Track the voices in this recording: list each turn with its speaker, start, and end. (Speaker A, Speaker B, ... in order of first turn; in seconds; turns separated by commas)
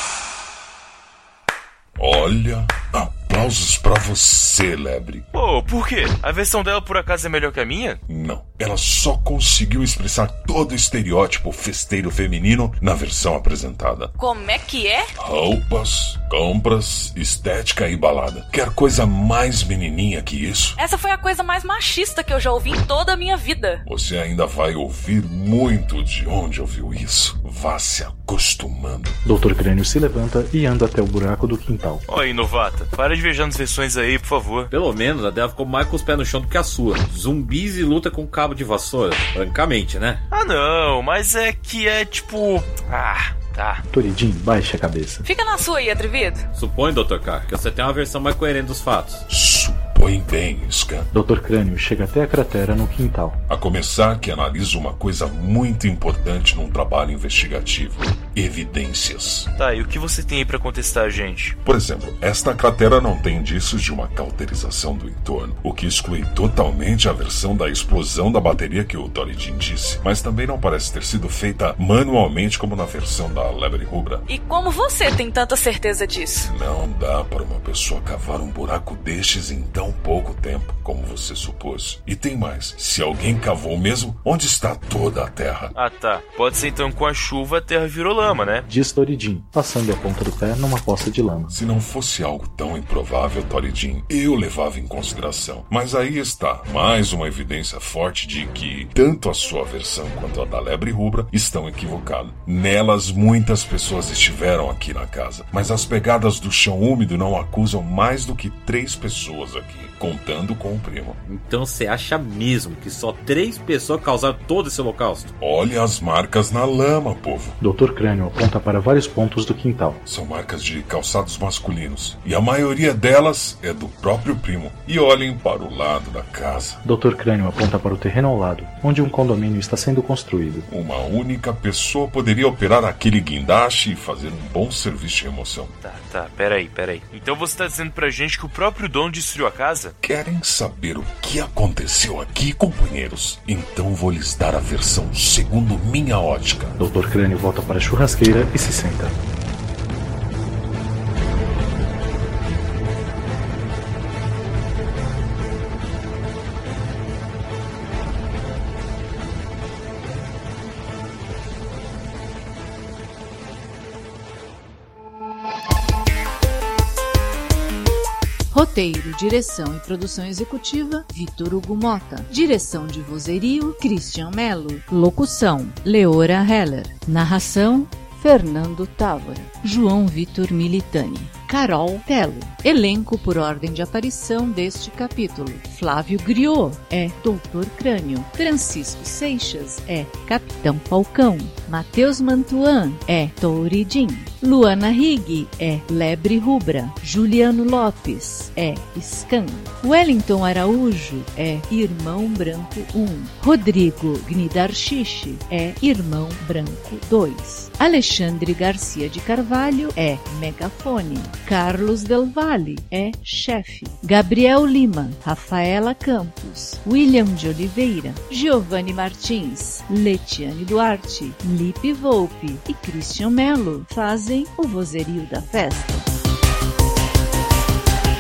Speaker A: 2.0-5.3, Speaker B: 5.3-8.0, Speaker A: 8.1-14.1, Speaker C: 14.2-15.1, Speaker A: 15.2-20.8, Speaker C: 20.8-23.8, Speaker A: 23.9-29.2, Speaker D: 29.2-32.0, Speaker B: 32.1-34.7, Speaker E: 34.7-40.2, Speaker B: 40.3-43.8, Speaker D: 43.9-45.3, Speaker C: 45.2-46.5, Speaker E: 46.5-49.2, Speaker A: 49.3-51.1, Speaker D: 51.1-53.4, Speaker A: 53.5-59.5, Speaker B: 59.6-61.6, Speaker A: 61.6-74.2, Speaker C: 74.3-76.5, Speaker A: 76.5-85.7, Speaker B: 85.8-88.7, Speaker D: 88.7-91.6, Speaker A: 91.5-111.2, Speaker E: 111.3-115.3, Speaker A: 115.4-117.6, Speaker D: 117.6-120.0, Speaker A: 120.0-126.8, Speaker D: 126.8-130.7, Speaker A: 130.7-135.7, Speaker B: 135.8-139.9, Speaker A: 140.0-146.8, Speaker D: 146.8-149.2, Speaker F: 168.5-226.1